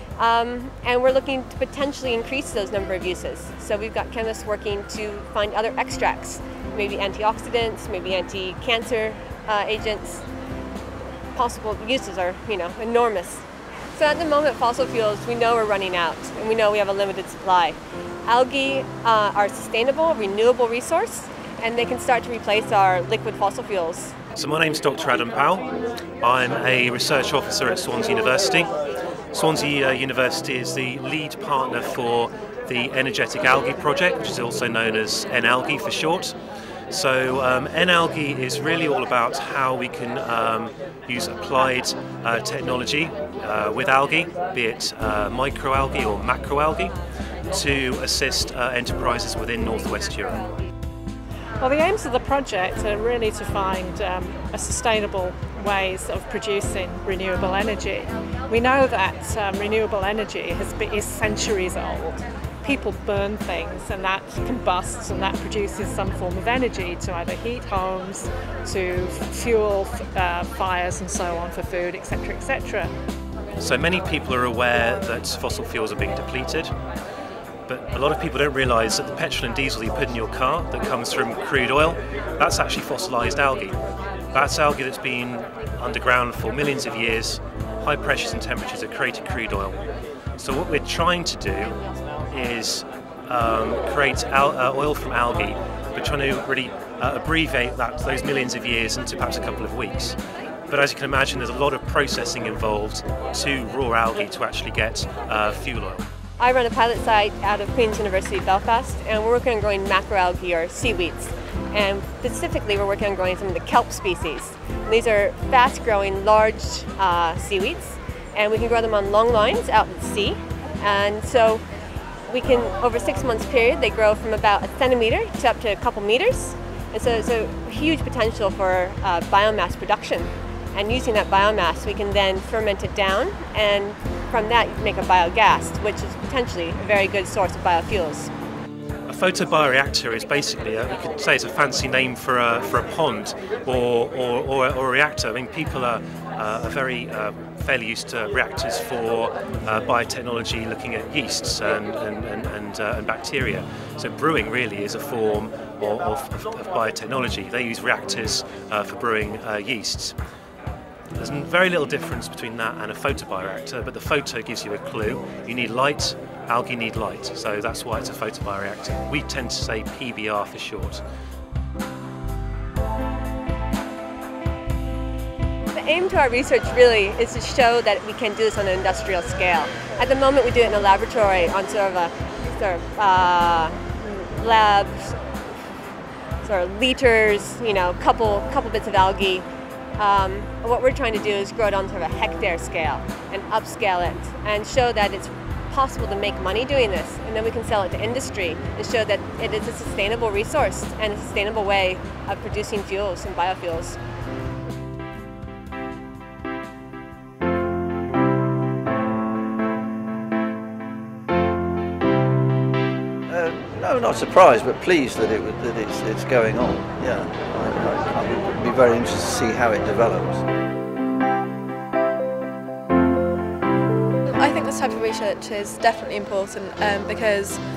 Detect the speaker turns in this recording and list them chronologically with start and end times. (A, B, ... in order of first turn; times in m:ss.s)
0:00.2-0:10.2 A
0:11.3-0:24.2 A
0:24.4-0:25.7 B
0:26.2-0:28.7 B
0:29.3-0:36.4 B
0:36.9-0:47.0 B
0:47.5-0:50.5 B
0:51.6-1:12.9 C
1:13.6-1:16.7 B
1:17.7-1:23.8 B
1:24.3-1:29.8 B
1:30.4-1:40.2 B
1:40.7-1:46.0 B
1:46.4-2:01.6 A
2:02.3-2:18.3 A
2:19.1-2:40.2 B
2:41.2-2:51.0 B
2:55.7-3:05.2 A
3:06.4-3:09.5 A
3:10.0-3:24.0 A
3:33.3-3:40.4 D
3:44.4-3:47.6 E